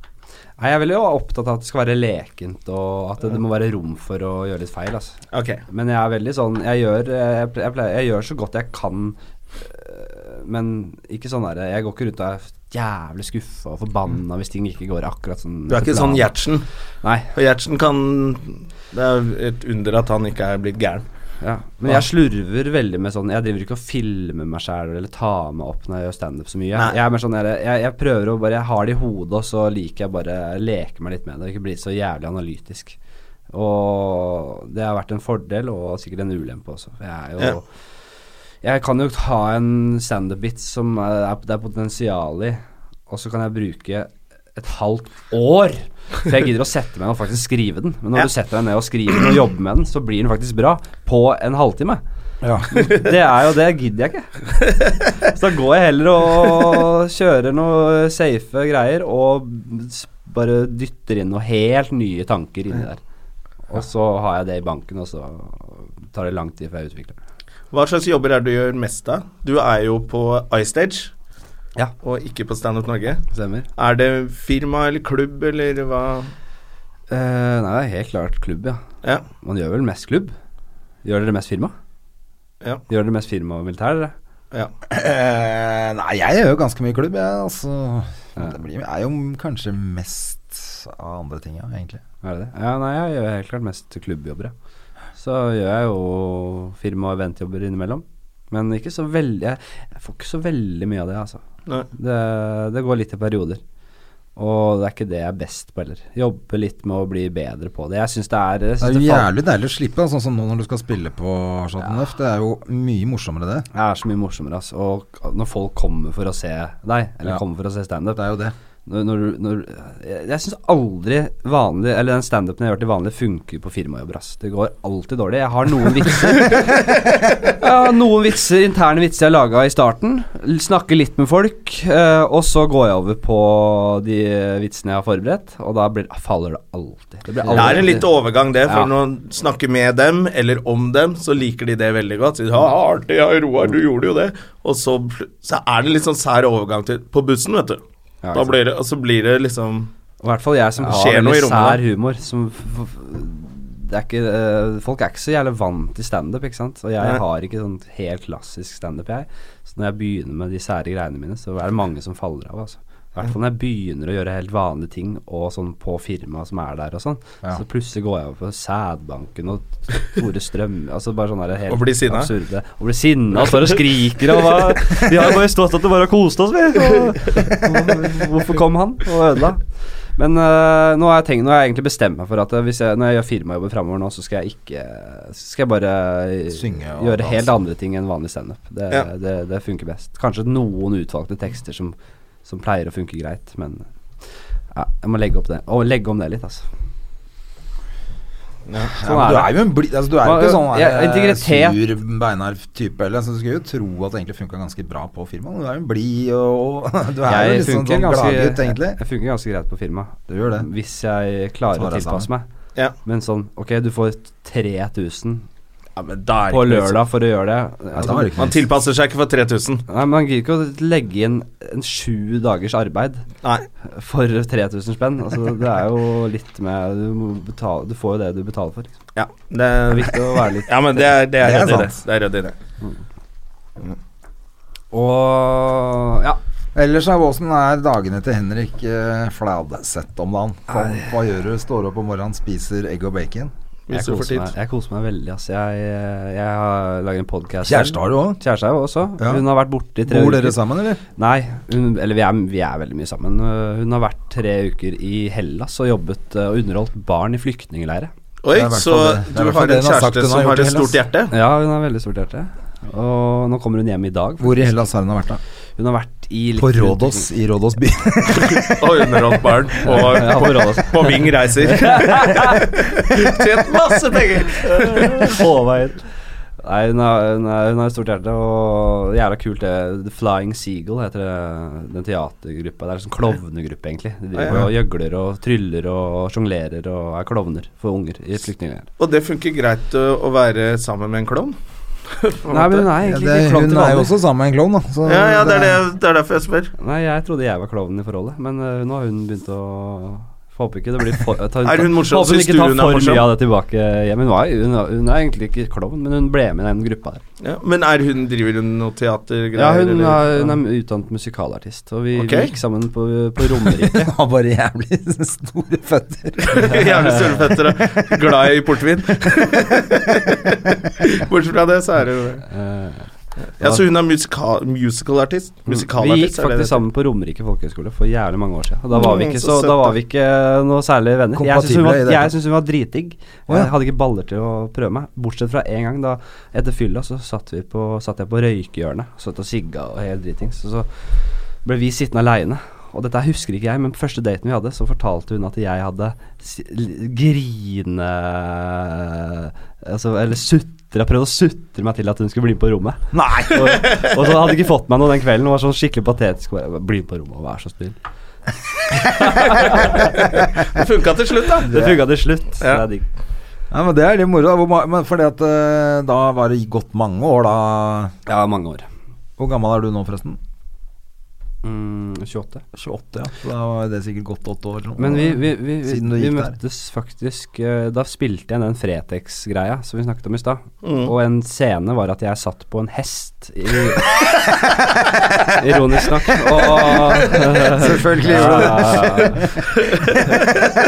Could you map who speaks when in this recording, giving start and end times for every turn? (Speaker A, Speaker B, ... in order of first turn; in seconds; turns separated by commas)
Speaker A: 0.6-5.2, Speaker B: 5.3-5.6, Speaker A: 5.7-16.3, Speaker B: 15.7-16.7, Speaker A: 17.0-17.3, Speaker B: 17.3-21.0, Speaker A: 21.4-33.0, Speaker A: 33.5-37.6, Speaker A: 38.6-52.0, Speaker C: 52.4-52.7, Speaker A: 52.7-54.3, Speaker A: 55.2-63.0, Speaker A: 63.7-67.2, Speaker B: 67.7-71.1, Speaker B: 72.0-73.2, Speaker A: 73.3-73.7, Speaker B: 73.8-76.3, Speaker A: 77.1-78.8, Speaker A: 79.4-80.3, Speaker A: 81.0-81.7, Speaker A: 82.9-84.1, Speaker C: 84.9-92.0, Speaker A: 92.2-94.5, Speaker A: 95.2-101.4, Speaker A: 101.9-103.6, Speaker A: 104.3-109.3, Speaker C: 108.8-113.7, Speaker A: 113.7-118.2, Speaker C: 118.1-118.5, Speaker A: 118.8-126.7, Speaker A: 127.5-138.1, Speaker C: 137.4-137.9, Speaker B: 137.5-147.8, Speaker A: 138.7-138.9, Speaker A: 148.2-148.6, Speaker B: 148.3-149.9, Speaker A: 150.2-179.6, Speaker B: 150.8-151.8, Speaker B: 171.7-172.3, Speaker A: 180.2-193.8, Speaker C: 186.5-187.5, Speaker A: 194.7-196.7, Speaker C: 198.9-209.0, Speaker A: 199.0-199.6, Speaker A: 200.2-201.8, Speaker A: 207.2-212.4, Speaker C: 210.3-210.7, Speaker C: 211.7-212.3, Speaker A: 213.0-215.4, Speaker B: 215.9-217.0, Speaker A: 216.5-218.3, Speaker C: 217.9-218.6, Speaker B: 218.4-219.8, Speaker A: 219.9-223.2, Speaker A: 223.8-228.9, Speaker B: 229.1-232.6, Speaker A: 229.9-230.7, Speaker C: 231.4-231.9, Speaker A: 234.9-236.4, Speaker C: 236.7-243.5, Speaker A: 240.7-241.1, Speaker B: 243.9-244.5, Speaker A: 243.9-250.6, Speaker C: 247.6-248.4, Speaker C: 249.2-249.4, Speaker C: 250.0-251.0, Speaker A: 251.2-258.1, Speaker B: 258.4-261.3, Speaker C: 258.5-261.0, Speaker A: 261.3-264.8, Speaker C: 264.4-265.4, Speaker A: 265.8-267.3, Speaker C: 266.6-269.2, Speaker B: 268.6-275.4, Speaker A: 269.8-272.7, Speaker A: 274.6-276.0, Speaker A: 276.6-288.9, Speaker B: 284.4-284.6, Speaker B: 289.0-291.6, Speaker B: 292.1-292.9, Speaker A: 292.5-294.1, Speaker C: 293.0-295.8, Speaker B: 295.0-296.7, Speaker A: 296.8-307.2, Speaker B: 301.6-303.3, Speaker B: 307.4-310.6, Speaker A: 309.5-314.1, Speaker B: 312.1-312.5, Speaker C: 313.8-318.2, Speaker B: 316.4-322.4, Speaker C: 319.2-319.9, Speaker A: 322.5-323.1, Speaker B: 323.6-326.8, Speaker A: 325.7-341.1, Speaker B: 328.9-329.9, Speaker C: 331.3-332.3, Speaker A: 341.6-357.9, Speaker C: 353.1-353.9, Speaker B: 353.8-354.1, Speaker A: 359.1-360.2, Speaker B: 359.5-361.9, Speaker A: 361.6-363.1, Speaker C: 363.7-368.1, Speaker A: 368.2-368.9, Speaker C: 369.4-370.4, Speaker A: 371.6-372.6, Speaker C: 372.7-376.6, Speaker A: 375.0-384.0, Speaker B: 380.8-381.1, Speaker A: 385.5-389.4, Speaker C: 387.7-389.5, Speaker B: 389.8-390.6